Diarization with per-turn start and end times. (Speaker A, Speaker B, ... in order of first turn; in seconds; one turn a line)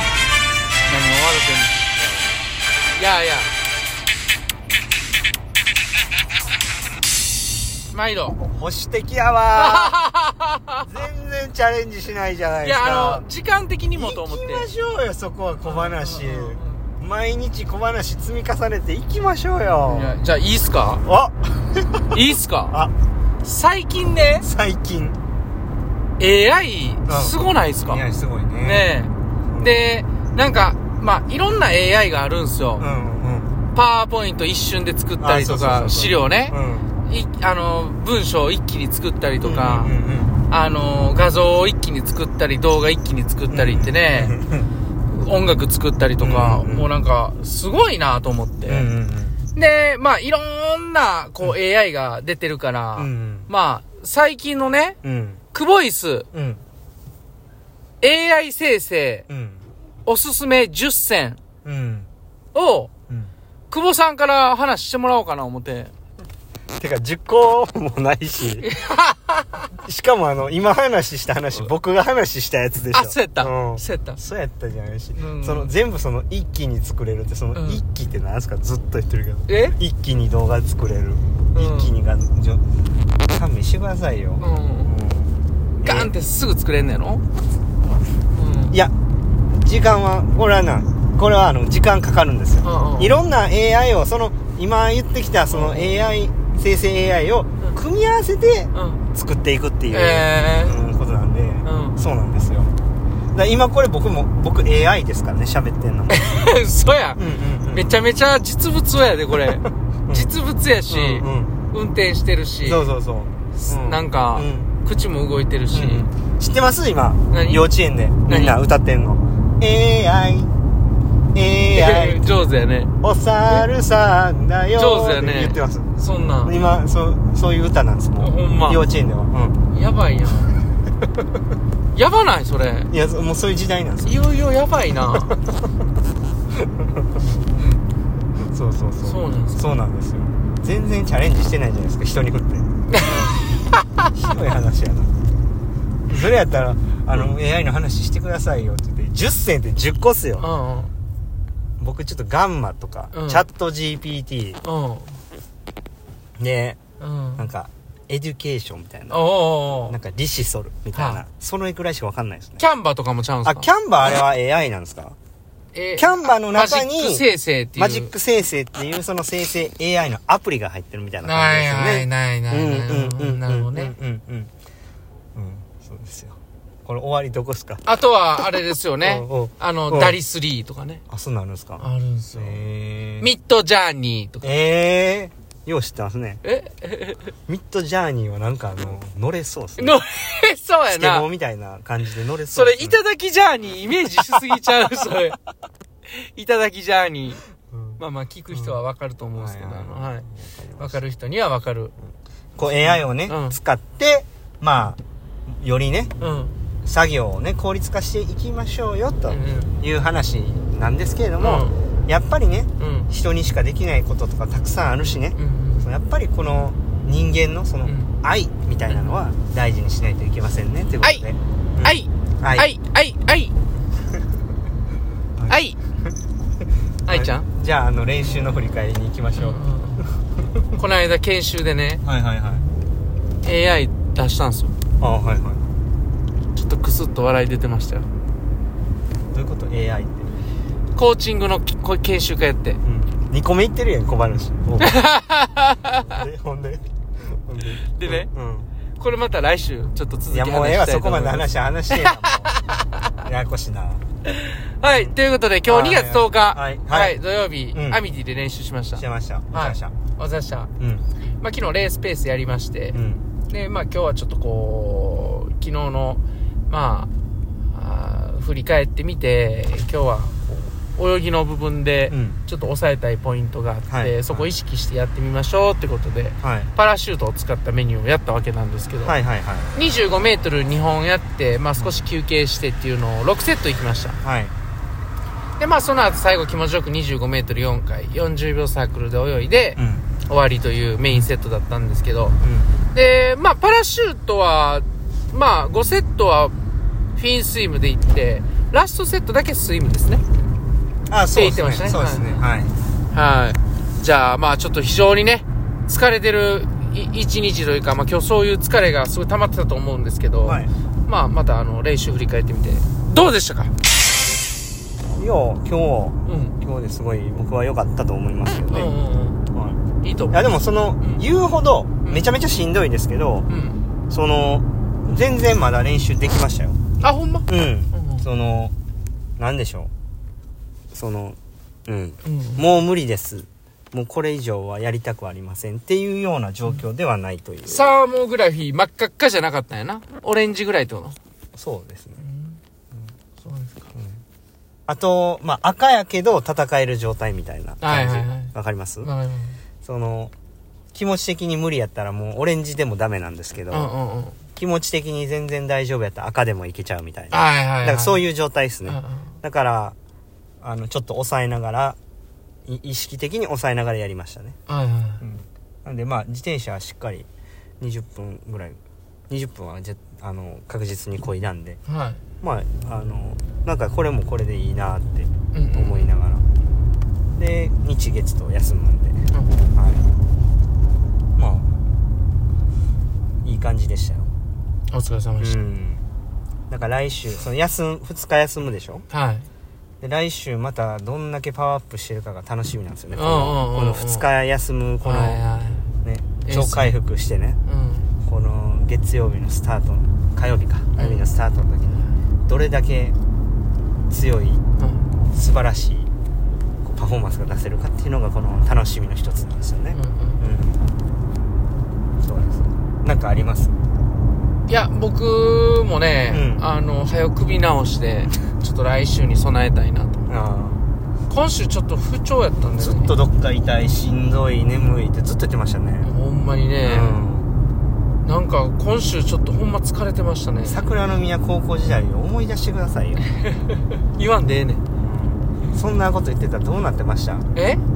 Speaker A: 0.9-1.9
Speaker A: 3.0-3.5
Speaker A: 7.9-8.4
Speaker B: 8.5-10.0
Speaker A: 9.5-10.8
Speaker B: 10.8-13.2
Speaker A: 12.6-14.7
Speaker B: 13.9-20.1
Speaker A: 15.6-16.8
Speaker A: 19.8-21.0
Speaker B: 21.0-22.9
Speaker A: 22.1-22.8
Speaker A: 23.4-24.4
Speaker B: 24.4-25.2
Speaker A: 26.2-28.0
Speaker B: 27.1-28.9
Speaker A: 28.6-32.9
Speaker B: 29.5-29.7
Speaker B: 32.8-33.5
Speaker A: 33.7-39.9
Speaker B: 35.2-36.9
Speaker B: 39.4-40.4
Speaker A: 40.5-44.3
Speaker B: 43.5-44.7
Speaker A: 45.1-48.9
Speaker B: 46.2-46.9
Speaker B: 48.6-49.4
Speaker A: 49.5-55.0
Speaker B: 53.0-53.5
Speaker B: 55.0-55.4
Speaker A: 55.5-56.3
Speaker B: 56.3-56.6
Speaker A: 58.0-59.2
Speaker B: 59.3-59.6
Speaker A: 60.0-61.4
Speaker B: 61.6-62.1
Speaker A: 62.5-62.9
Speaker A: 63.7-65.9
Speaker B: 66.8-68.7
Speaker A: 68.6-69.7
Speaker B: 69.8-82.6
Speaker A: 72.9-74.2
Speaker A: 75.1-75.7
Speaker A: 77.5-77.8
Speaker A: 79.5-79.8
Speaker A: 81.5-81.9
Speaker B: 83.2-86.1
Speaker A: 84.4-84.9
Speaker A: 85.8-87.2
Speaker A: 88.3-88.8
Speaker B: 89.5-102.7
Speaker A: 92.6-93.2
Speaker A: 95.5-96.1
Speaker A: 98.7-99.0
Speaker A: 99.9-100.8
Speaker A: 101.6-102.0
Speaker B: 103.3-106.2
Speaker A: 106.1-112.8
Speaker B: 107.2-107.9
Speaker B: 110.0-110.3
Speaker B: 110.9-111.5
Speaker B: 112.6-114.7
Speaker A: 113.6-116.1
Speaker B: 115.7-120.5
Speaker A: 117.3-117.7
Speaker A: 118.3-118.5
Speaker B: 121.3-122.5
Speaker A: 121.7-122.9
Speaker B: 123.0-129.6
Speaker A: 124.8-126.5
Speaker A: 128.2-128.8
Speaker A: 129.7-130.6
Speaker A: 131.9-132.9
Speaker B: 132.9-134.2
Speaker A: 134.0-135.4
Speaker A: 137.2-137.8
Speaker B: 138.5-143.3
Speaker A: 139.0-139.7
Speaker A: 142.9-144.1
Speaker B: 144.1-145.1
Speaker B: 146.1-150.5
Speaker A: 150.4-150.9
Speaker B: 151.8-154.6
Speaker A: 153.1-153.4
Speaker A: 154.6-155.2
Speaker B: 156.4-156.8
Speaker A: 157.0-157.4
Speaker B: 157.4-159.2
Speaker A: 159.1-160.0
Speaker B: 159.8-162.6
Speaker A: 160.9-161.2
Speaker A: 162.6-163.7
Speaker B: 163.4-165.2
Speaker A: 165.7-168.1
Speaker B: 166.0-174.5
Speaker A: 171.2-173.9
Speaker B: 175.3-177.8
Speaker A: 177.8-181.0
Speaker B: 179.0-180.2
Speaker B: 181.1-183.3
Speaker A: 181.8-182.6
Speaker A: 183.2-184.5
Speaker B: 184.4-186.4
Speaker A: 186.4-187.3
Speaker B: 187.5-190.0
Speaker A: 189.8-191.2
Speaker B: 190.9-193.0
Speaker A: 192.5-195.4
Speaker A: 196.1-197.4
Speaker B: 197.7-198.8
Speaker A: 198.0-200.2
Speaker B: 199.4-201.0
Speaker A: 200.8-201.9
Speaker B: 202.6-206.1
Speaker A: 202.8-203.6
Speaker A: 206.2-206.6
Speaker B: 206.8-222.7
Speaker A: 209.3-209.7
Speaker A: 211.4-211.8
Speaker A: 212.8-213.1
Speaker A: 215.3-215.9
Speaker A: 217.8-218.1
Speaker A: 218.9-219.2
Speaker A: 221.8-223.6
Speaker A: 225.5-225.8
Speaker A: 227.1-227.5
Speaker B: 227.1-229.6
Speaker A: 229.4-230.1
Speaker A: 230.7-232.0
Speaker B: 232.0-232.6
Speaker A: 233.4-234.7
Speaker B: 235.0-235.6
Speaker A: 236.5-238.1
Speaker B: 239.3-240.3
Speaker A: 240.9-242.8
Speaker B: 242.8-245.0
Speaker A: 244.8-246.2
Speaker B: 246.0-248.7
Speaker A: 247.9-248.3
Speaker A: 249.0-252.8
Speaker B: 250.3-252.5
Speaker B: 253.2-254.0
Speaker A: 254.3-260.7
Speaker B: 254.8-257.2
Speaker B: 257.7-258.0
Speaker B: 258.9-259.9
Speaker B: 260.8-261.1
Speaker A: 261.4-263.0
Speaker B: 262.9-263.2
Speaker A: 263.5-267.1
Speaker A: 267.7-279.1
Speaker B: 272.1-272.4
Speaker B: 273.9-274.5
Speaker B: 276.4-276.7
Speaker B: 279.0-279.7
Speaker A: 279.7-284.2
Speaker B: 281.8-282.1
Speaker B: 284.2-284.5
Speaker A: 285.6-292.4
Speaker B: 289.8-290.1
Speaker B: 292.4-292.7
Speaker A: 292.9-296.5
Speaker A: 297.1-300.2
Speaker B: 301.1-302.7
Speaker A: 301.3-302.4
Speaker A: 303.1-313.7
Speaker B: 310.4-310.7
Speaker B: 315.1-318.9
Speaker A: 316.2-316.5
Speaker A: 318.7-319.4
Speaker B: 319.5-319.8
Speaker A: 320.0-320.4
Speaker B: 320.3-323.5
Speaker A: 323.5-323.8
Speaker B: 324.1-326.8
Speaker A: 327.0-328.2
Speaker B: 327.5-328.7
Speaker B: 329.4-329.9
Speaker B: 330.9-337.9
Speaker A: 332.2-332.7
Speaker A: 337.7-341.1
Speaker B: 341.6-342.2
Speaker A: 342.2-342.6
Speaker A: 343.4-343.9
Speaker B: 344.9-349.1
Speaker A: 347.8-349.6
Speaker B: 349.8-350.3
Speaker B: 350.9-353.9
Speaker A: 353.7-354.4
Speaker B: 354.6-359.9
Speaker A: 357.3-358.2
Speaker A: 358.9-359.2
Speaker B: 360.6-362.0
Speaker B: 362.6-364.6
Speaker A: 364.7-365.2
Speaker B: 365.2-367.3
Speaker B: 367.8-368.8
Speaker B: 369.3-371.8
Speaker A: 371.9-372.2
Speaker B: 372.4-376.4
Speaker A: 375.5-376.1
Speaker B: 377.4-379.2
Speaker B: 379.7-380.0
Speaker B: 381.4-381.7
Speaker B: 383.4-384.3
Speaker A: 384.9-385.6
Speaker B: 385.4-386.0
Speaker B: 386.7-389.0
Speaker A: 389.1-389.5
Speaker B: 390.0-395.4
Speaker A: 393.1-394.3
Speaker A: 395.0-395.9
Speaker B: 396.0-397.6
Speaker A: 396.4-397.0
Speaker A: 397.6-398.1
Speaker B: 398.2-403.1
Speaker A: 400.9-401.2
Speaker B: 404.1-404.6
Speaker A: 404.8-405.1
Speaker B: 405.3-406.1
Speaker B: 406.8-410.8
Speaker A: 409.9-410.4
Speaker B: 412.2-413.7
Speaker A: 414.7-420.2
Speaker B: 416.3-416.6
Speaker B: 420.3-420.8
Speaker A: 421.3-423.1
Speaker B: 422.8-426.1
Speaker A: 426.0-427.2
Speaker B: 426.8-427.5
Speaker A: 428.2-430.8
Speaker B: 430.6-433.2
Speaker A: 433.6-434.8
Speaker B: 435.0-437.5
Speaker A: 437.5-437.8